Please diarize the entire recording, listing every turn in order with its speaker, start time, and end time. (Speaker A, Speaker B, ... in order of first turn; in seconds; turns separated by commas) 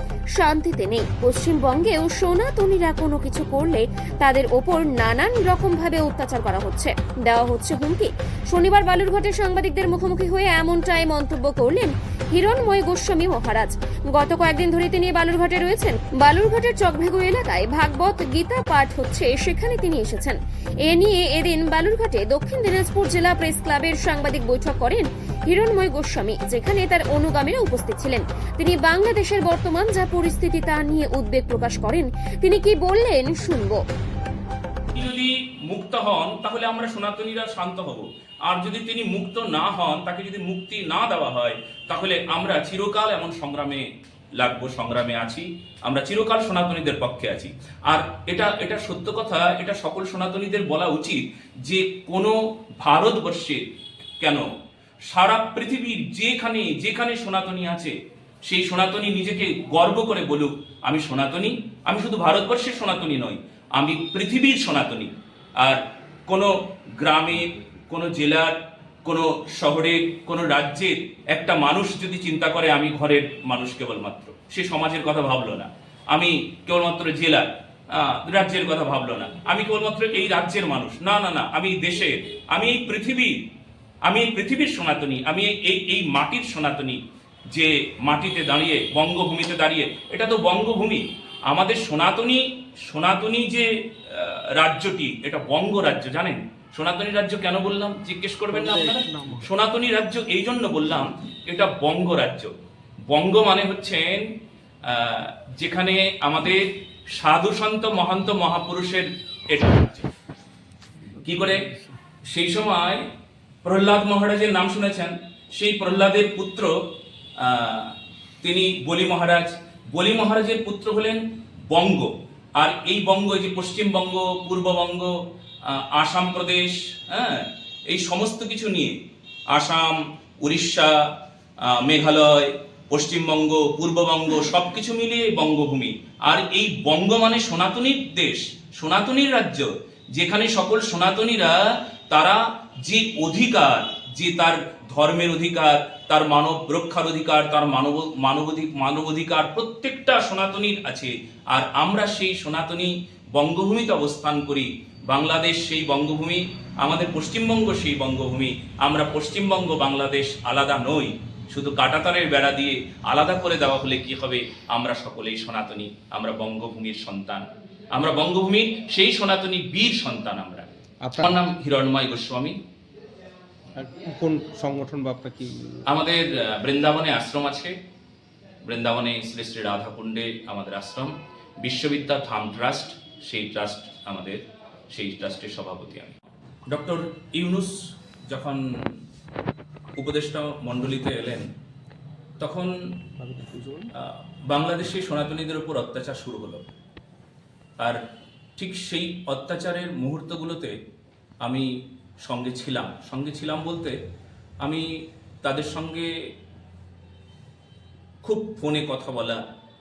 Speaker A: 0.3-33.8, Speaker B: 34.9-43.8, Speaker B: 44.4-53.6, Speaker B: 54.2-54.4, Speaker B: 55.1-57.9, Speaker B: 58.5-83.3, Speaker B: 84.0-87.0, Speaker B: 87.5-102.5, Speaker C: 98.5-99.4, Speaker B: 103.1-104.2, Speaker B: 104.8-106.6, Speaker B: 107.2-110.1, Speaker B: 111.2-111.6, Speaker B: 112.3-113.0, Speaker B: 113.6-116.7, Speaker B: 117.4-125.1, Speaker B: 125.7-128.9, Speaker B: 129.5-131.0, Speaker B: 131.7-141.6, Speaker B: 142.1-172.6, Speaker C: 171.0-171.4, Speaker C: 173.8-175.8, Speaker B: 175.9-177.7, Speaker B: 178.7-186.2, Speaker B: 186.7-188.9, Speaker B: 190.0-191.4, Speaker B: 192.4-192.7, Speaker C: 193.2-193.9, Speaker B: 194.0-196.6, Speaker B: 198.6-200.7, Speaker B: 202.2-203.9, Speaker B: 205.4-206.1, Speaker B: 208.2-209.4